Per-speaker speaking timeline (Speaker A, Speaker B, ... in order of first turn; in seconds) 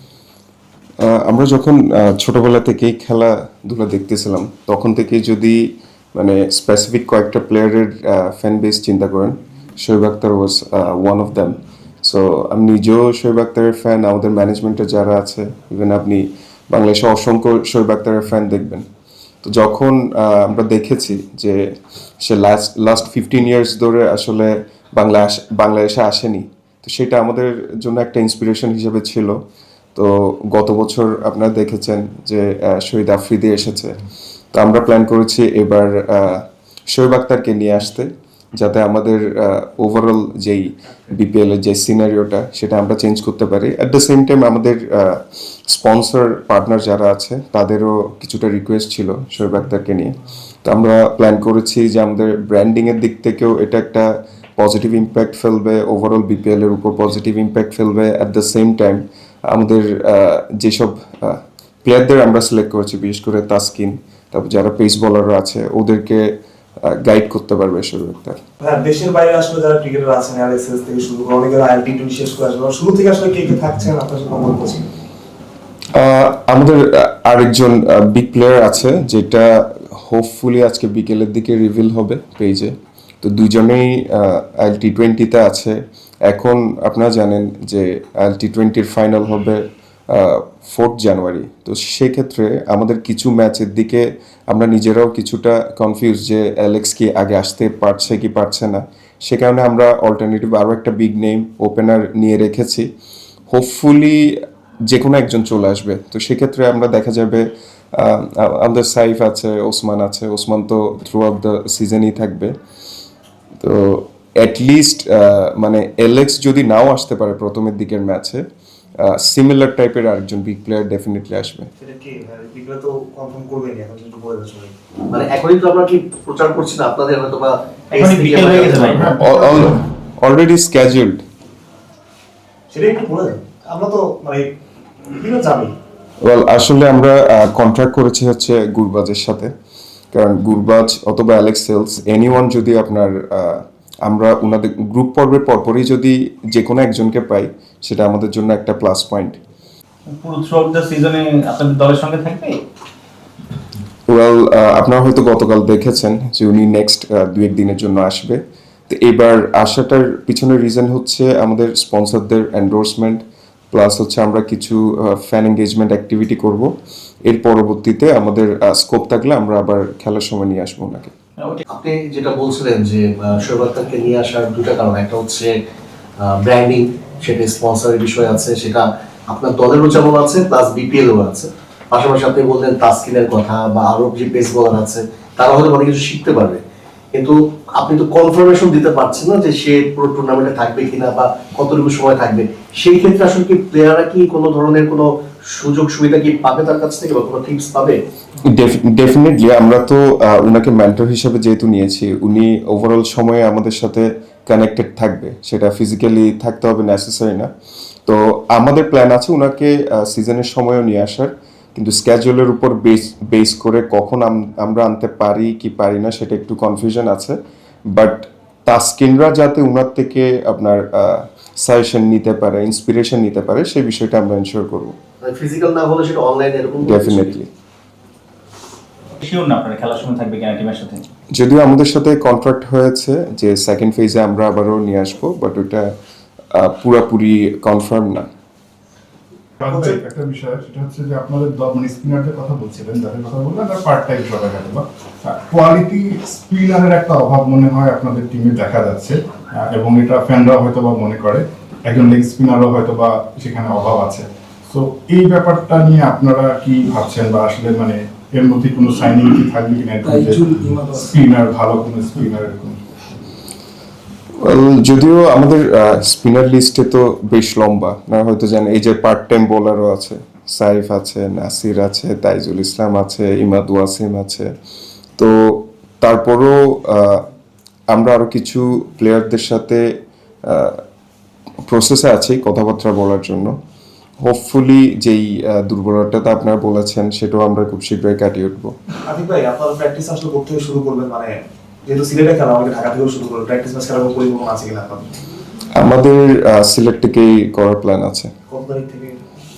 Speaker A: 1.0-18.9, 19.4-29.4, 29.9-34.0, 34.5-68.4, 75.9-102.9, 103.5-112.5, 113.6-118.4, 119.0-121.7, 129.2-131.2, 136.2-139.5, 140.1-149.4, 154.1-166.7, 167.3-171.1, 198.4-207.5, 208.1-217.4, 217.9-224.9, 226.8-227.5, 231.3-235.9, 236.5-238.3, 264.4-274.5, 275.2-277.3, 277.9-279.9, 280.5-280.8, 281.7-283.6, 284.2-288.8, 295.7-298.3
Speaker B: 68.6-74.8, 121.8-124.7, 132.7-134.5, 135.2-135.7, 239.7-239.9, 260.1-260.9, 289.1-291.3, 291.9-295.1, 298.5-299.2
Speaker C: 125.1-128.9, 171.7-175.6, 176.2-186.6, 187.1-198.0, 225.2-227.3
Speaker D: 127.9-129.0, 150.1-152.6, 171.4-171.6, 229.2-231.0
Speaker E: 128.9-129.8, 239.6-262.8